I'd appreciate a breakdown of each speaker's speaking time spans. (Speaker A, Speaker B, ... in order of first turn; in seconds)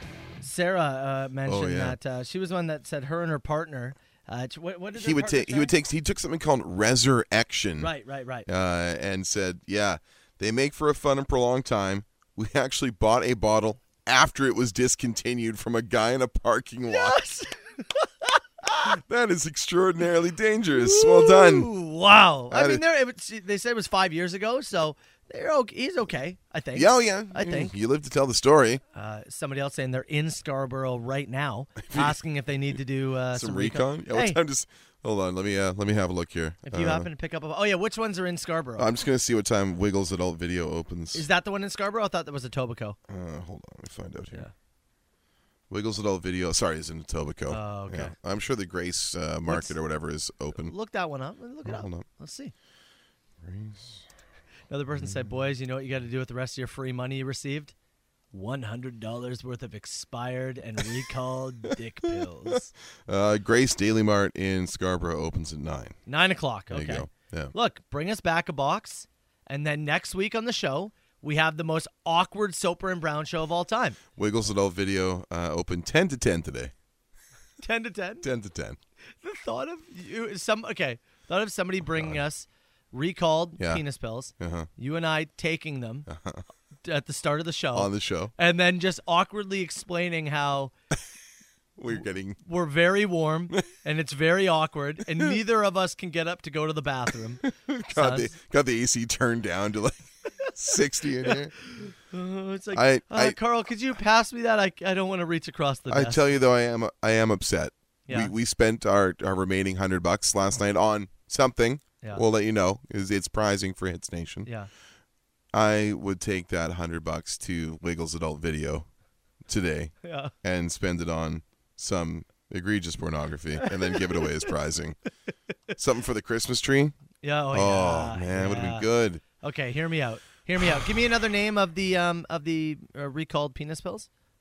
Speaker A: 0.4-5.7, 7.8-8.5, 16.9-18.9, 20.7-27.7, 28.9-34.4, 36.6-38.9, 41.1-43.0, 47.5-48.1, 49.5-49.7, 50.5-52.5, 54.7-57.7, 58.3-62.7, 66.1-74.0, 77.6-78.2, 79.2-86.1, 86.8-90.7, 91.9-98.3, 101.2-106.3, 108.1-108.3, 120.0-120.3, 123.7-124.3, 127.2-128.8, 129.4-134.1
Speaker B: 1.4-2.0, 4.9-7.9, 8.5-17.2, 18.9-21.7, 22.5-22.8, 26.7-28.8, 31.8-32.2, 33.3-37.1, 38.8-41.3, 43.1-44.5, 45.7-50.7, 51.6-52.0, 53.4-54.0, 55.0-55.4, 62.5-66.0, 66.7-67.5, 74.2-76.7, 78.2-78.8, 81.9-82.2, 84.4-84.7, 86.1-86.4, 87.7-88.3, 91.8-92.4, 97.4-101.5, 102.7-103.3, 105.9-114.5, 115.5-118.9, 119.5-125.0, 125.8-127.0, 127.5-129.2